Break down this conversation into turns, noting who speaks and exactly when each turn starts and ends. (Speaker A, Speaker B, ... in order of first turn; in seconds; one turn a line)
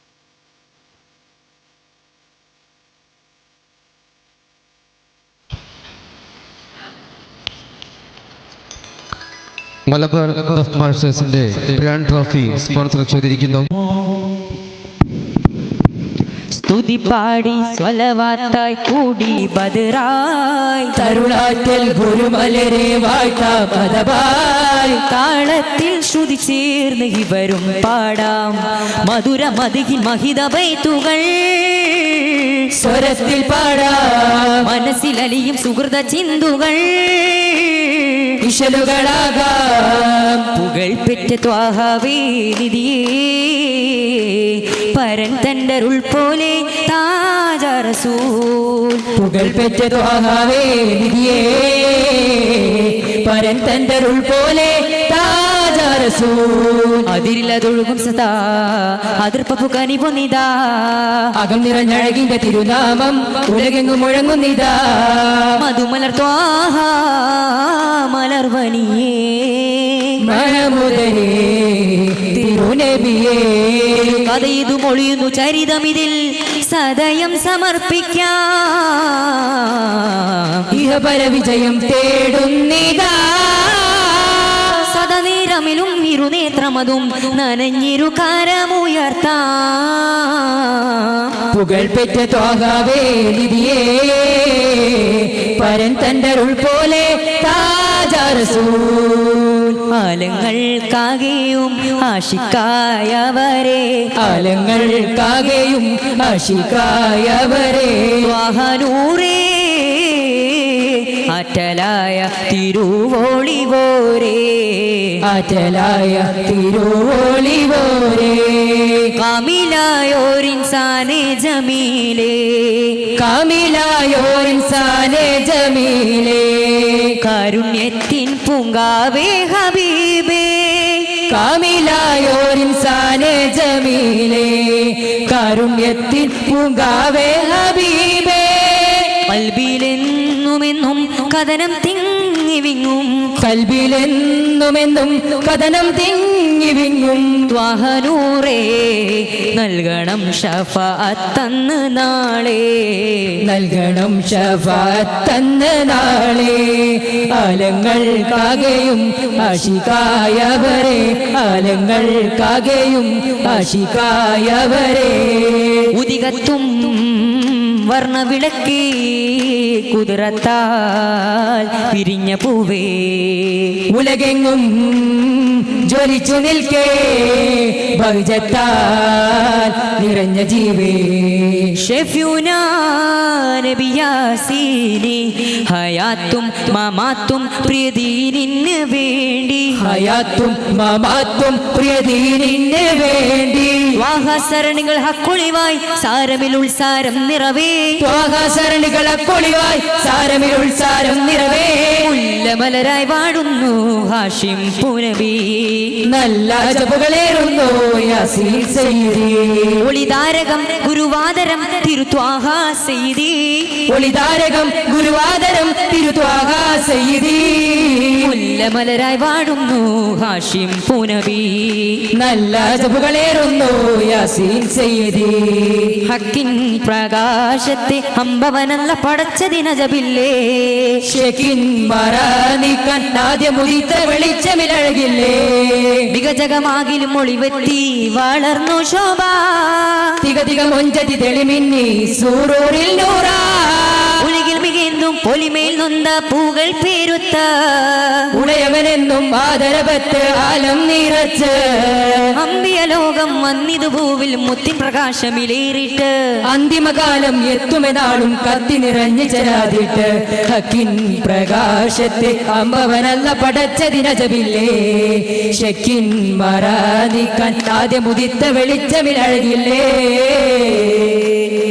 Speaker A: 9.9-13.7
Speaker B: 16.5-21.0
Speaker C: 20.9-25.0
Speaker B: 25.1-32.8
Speaker C: 32.7-34.7
Speaker B: 34.6-38.4
Speaker C: 38.4-40.5
Speaker B: 40.5-49.1
Speaker C: 49.1-57.1
Speaker B: 57.0-61.3
Speaker C: 61.3-65.6
Speaker B: 65.5-70.2
Speaker C: 70.2-74.3
Speaker B: 74.1-80.7
Speaker C: 80.7-84.8
Speaker B: 84.7-91.4
Speaker C: 91.5-99.8
Speaker B: 99.9-104.1
Speaker C: 104.2-108.3
Speaker B: 108.2-115.2
Speaker C: 115.2-119.1
Speaker B: 119.1-123.0
Speaker C: 123.1-127.2
Speaker B: 127.2-131.2
Speaker C: 131.3-139.2
Speaker B: 139.2-143.4
Speaker C: 143.4-147.5
Speaker B: 147.5-153.4
Speaker C: 153.4-165.9
Speaker B: 165.9-173.8
Speaker C: 173.9-181.7
Speaker B: 181.8-189.9
Speaker C: 189.8-194.0
Speaker B: 193.9-198.0
Speaker C: 198.0-202.1
Speaker B: 202.0-206.0
Speaker C: 206.0-209.9
Speaker B: 209.8-213.8
Speaker C: 213.9-218.3
Speaker B: 218.2-222.1
Speaker C: 222.1-226.0
Speaker B: 226.0-231.0
Speaker C: 231.1-236.1
Speaker B: 236.1-240.2
Speaker C: 240.2-244.2
Speaker B: 244.2-248.3
Speaker C: 248.3-252.4
Speaker B: 252.3-256.4
Speaker C: 256.4-271.2